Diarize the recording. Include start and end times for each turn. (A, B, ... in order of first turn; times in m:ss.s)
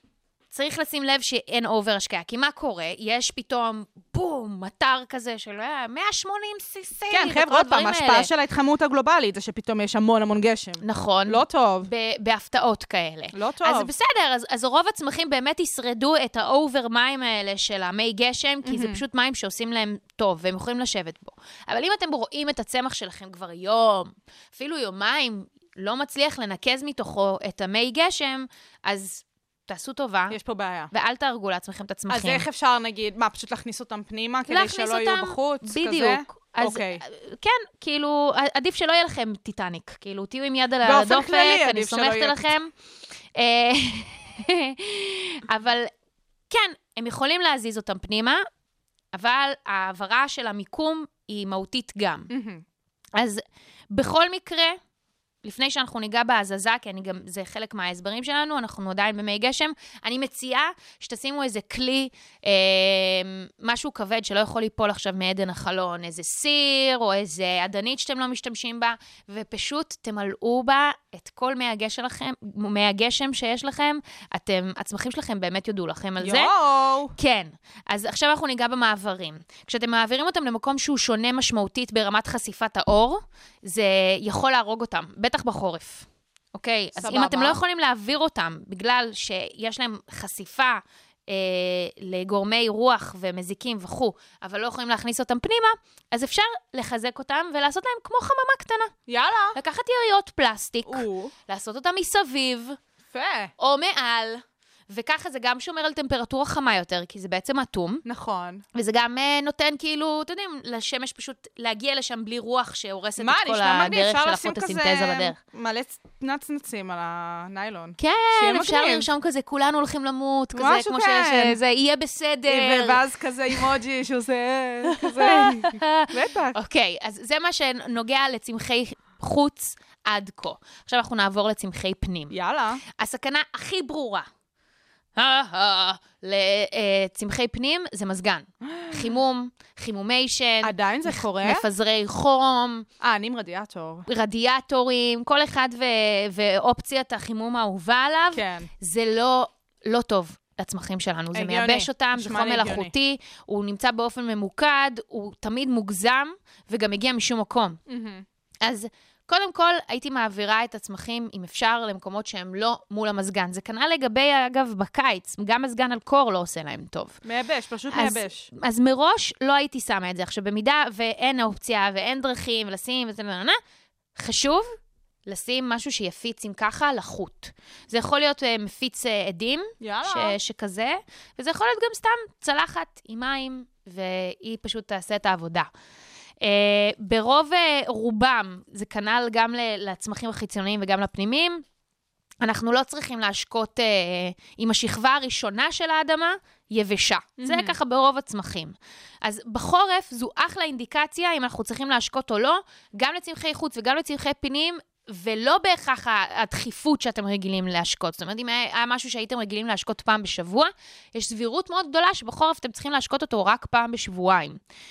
0:00.5-0:08.3 A
0:07.1-0:11.9 B
0:10.8-0:30.4 A
0:13.3-0:13.9 B
0:18.6-0:19.0 B
0:30.3-0:30.9 B
0:30.9-0:32.4 A
0:32.1-0:37.0 B
0:34.5-0:42.7 A
0:40.8-0:42.5 B
0:43.4-0:45.9 A
0:46.5-0:48.4 A
0:49.1-0:52.3 A
0:52.3-0:52.6 B
0:53.2-0:54.8 A
0:55.4-1:16.5 A
1:16.2-1:17.1 B
1:17.2-1:38.9 A
1:27.0-1:27.6 B
1:39.1-1:39.6 B
1:39.6-1:42.8 A
1:40.9-1:41.3 B
1:43.1-1:43.5 B
1:43.6-1:48.0 A
1:48.0-1:48.6 B
1:48.8-1:55.4 A
1:53.2-1:59.1 B
1:58.0-2:03.0 A
2:00.6-2:01.6 B
2:02.5-2:06.6 B
2:04.9-2:12.4 A
2:12.3-2:12.8 B
2:12.9-2:14.3 A
2:15.2-2:22.9 A
2:18.6-2:19.1 B
2:20.6-2:21.6 B
2:23.0-2:24.1 B
2:24.1-2:37.8 A
2:28.3-2:28.7 B
2:31.3-2:32.9 B
2:37.9-2:38.2 B
2:38.6-2:47.2 A
2:47.2-2:48.5 B
2:47.9-2:53.6 A
2:54.2-2:54.8 A
2:55.3-3:05.7 A
2:59.8-3:00.4 B
3:06.4-3:11.6 A
3:12.4-3:34.6 A
3:17.4-3:17.8 B